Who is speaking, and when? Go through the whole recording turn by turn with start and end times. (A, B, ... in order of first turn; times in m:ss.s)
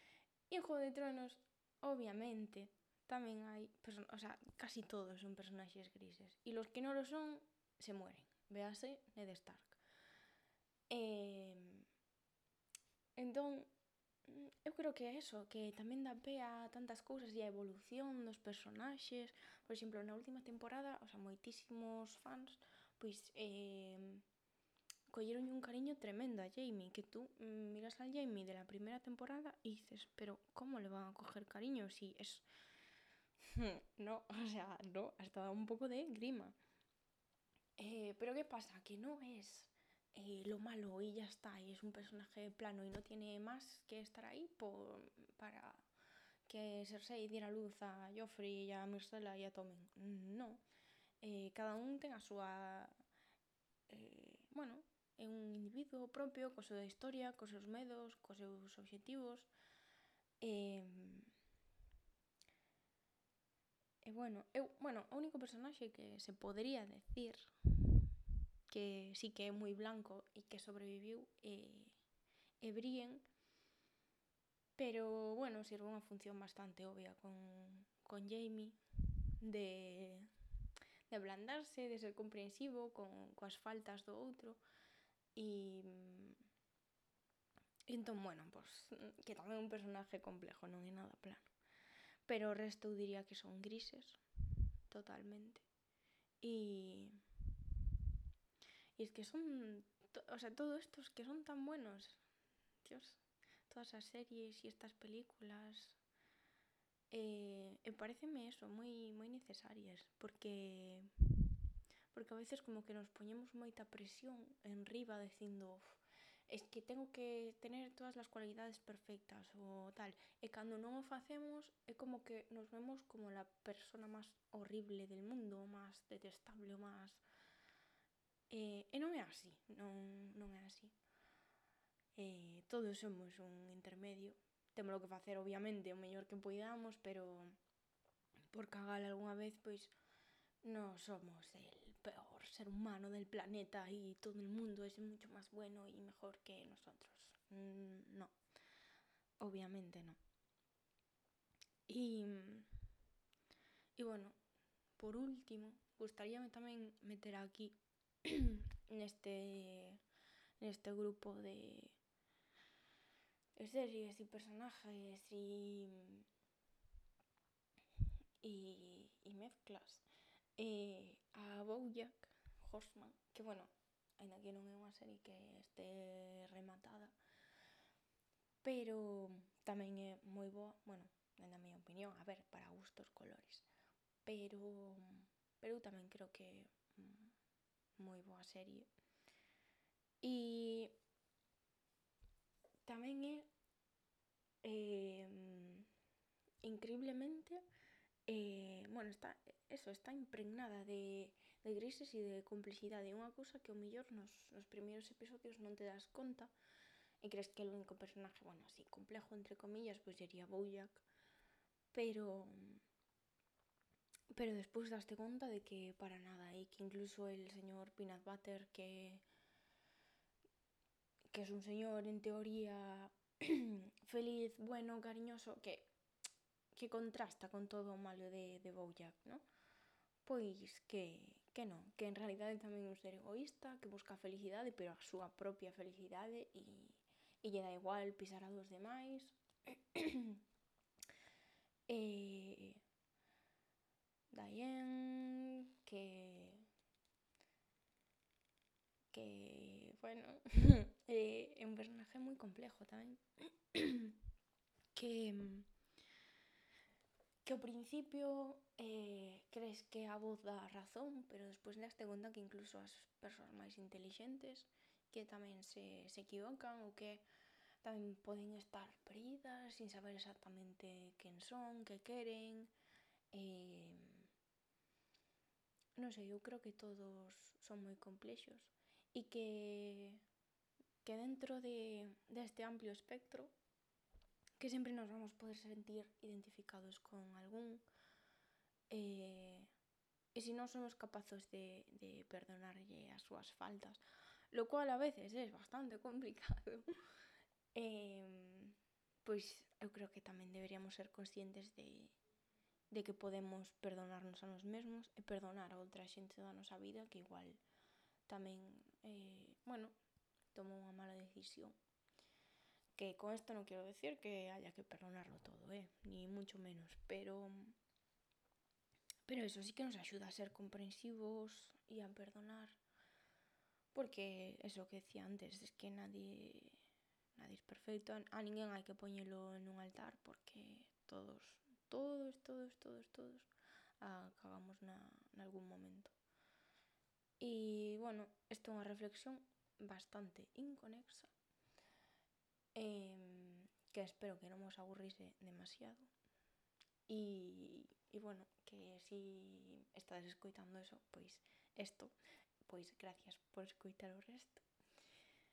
0:00.5-0:09.8 A
0:10.9-0:11.9 A
0:13.2-0:13.7 A
0:14.2-0:24.2 A
0:25.1-0:32.4 A
0:33.5-0:36.6 A
0:37.8-0:45.9 A
0:46.5-0:50.6 A
0:51.2-0:52.9 A
0:53.9-0:59.5 A
1:00.4-1:01.3 A
1:04.0-1:08.1 A
1:08.7-1:12.0 A
1:12.6-1:13.2 A
1:14.8-1:18.8 A
1:19.4-1:20.3 A
1:21.1-1:24.6 A
1:25.4-1:26.4 A
1:27.9-1:31.5 A
1:32.3-1:34.2 A
1:34.9-1:35.7 A
1:36.4-1:37.2 A
1:39.0-1:42.2 A
1:42.8-1:46.0 A
1:47.1-1:51.1 A
1:52.1-2:07.2 A
2:08.5-2:10.9 A
2:12.2-2:17.6 A
2:18.5-2:19.9 A
2:20.6-2:28.3 A
2:29.4-2:30.2 A
2:31.9-2:32.7 A
2:34.0-2:34.4 A
2:35.0-2:40.0 A
2:40.6-2:42.0 A
2:43.6-2:46.3 A
2:48.4-2:50.0 A
2:50.6-2:57.2 A
2:58.6-3:03.7 A
3:04.2-3:07.3 A
3:08.0-3:08.9 A
3:10.2-3:10.9 A
3:12.9-3:13.5 A
3:14.6-3:15.9 A
3:16.6-3:17.6 A
3:18.3-3:26.5 A
3:27.2-3:31.0 A
3:31.9-3:32.8 A
3:34.3-3:39.2 A
3:41.3-3:45.9 A
3:46.7-3:49.4 A
3:50.2-4:00.4 A
4:01.9-4:02.8 A
4:04.3-4:06.7 A
4:09.1-4:14.2 A
4:15.0-4:15.7 A
4:17.4-4:27.2 A
4:27.8-4:32.7 A
4:33.3-4:34.3 A
4:36.0-4:40.2 A
4:41.0-4:43.5 A
4:44.6-4:47.8 A
4:48.9-4:49.7 A
4:50.4-4:56.9 A
4:57.7-5:02.2 A
5:02.9-5:07.6 A
5:08.3-5:09.9 A
5:10.5-5:11.8 A
5:13.0-5:17.8 A
5:19.3-5:22.8 A
5:23.9-5:26.8 A
5:27.4-5:33.5 A
5:34.0-5:36.1 A
5:37.4-5:41.3 A
5:42.8-5:46.1 A
5:47.1-5:54.6 A